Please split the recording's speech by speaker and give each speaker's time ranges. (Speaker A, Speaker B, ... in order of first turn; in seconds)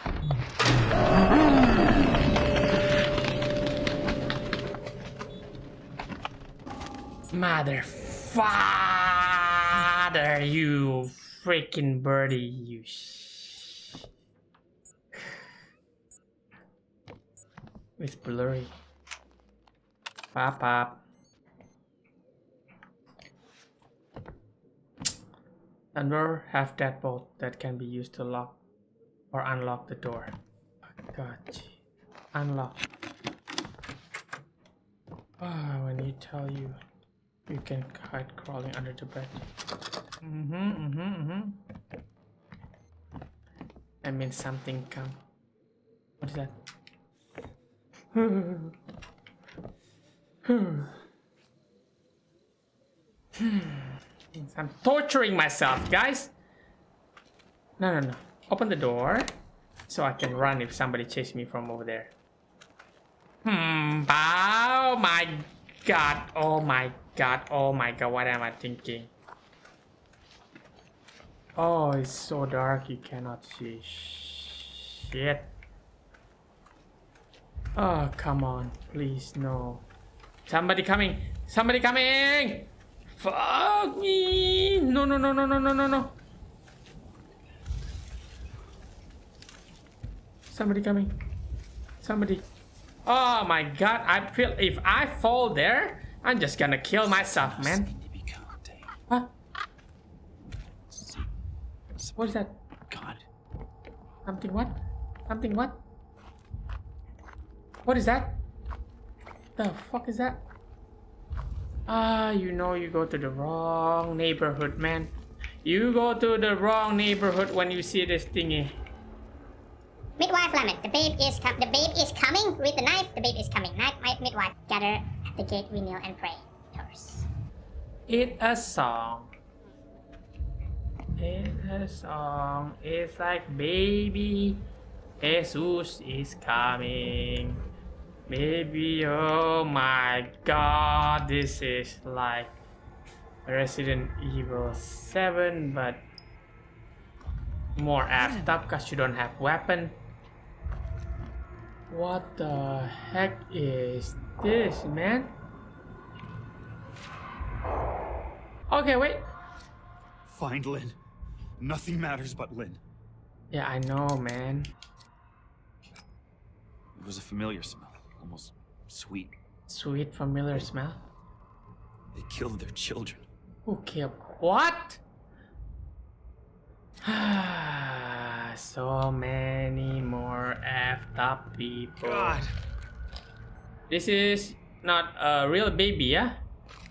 Speaker A: 7.3-13.7, 18.0-18.8, 20.3-21.0, 25.9-28.6, 29.3-30.4, 30.9-31.8, 32.3-32.8, 35.4-36.8, 37.5-39.5, 40.2-41.6, 44.0-45.2, 46.2-46.5, 48.1-48.7, 50.5-50.9, 53.4-56.3, 57.8-59.3, 59.9-62.1, 63.4-69.1, 71.6-75.5, 77.8-79.9, 80.5-86.2, 90.5-91.1, 92.0-92.4, 93.1-97.9, 102.2-102.6, 104.2-104.8, 105.3-105.8, 107.8-108.4, 109.6-110.4, 111.9-115.1, 115.6-118.8, 128.1-129.3, 131.2-134.7, 135.2-137.6, 138.3-142.6, 143.5-146.1, 147.8-150.0, 151.9-155.3, 158.7-159.3, 163.5-164.7, 169.7-171.0, 173.7-175.0, 177.0-182.4, 183.9-186.4
Speaker B: 97.0-98.9, 100.9-101.2, 102.9-103.2, 148.2-148.6, 160.2-161.0, 161.6-162.8, 167.0-169.3, 172.1-173.2, 182.0-182.5
Speaker C: 120.2-127.3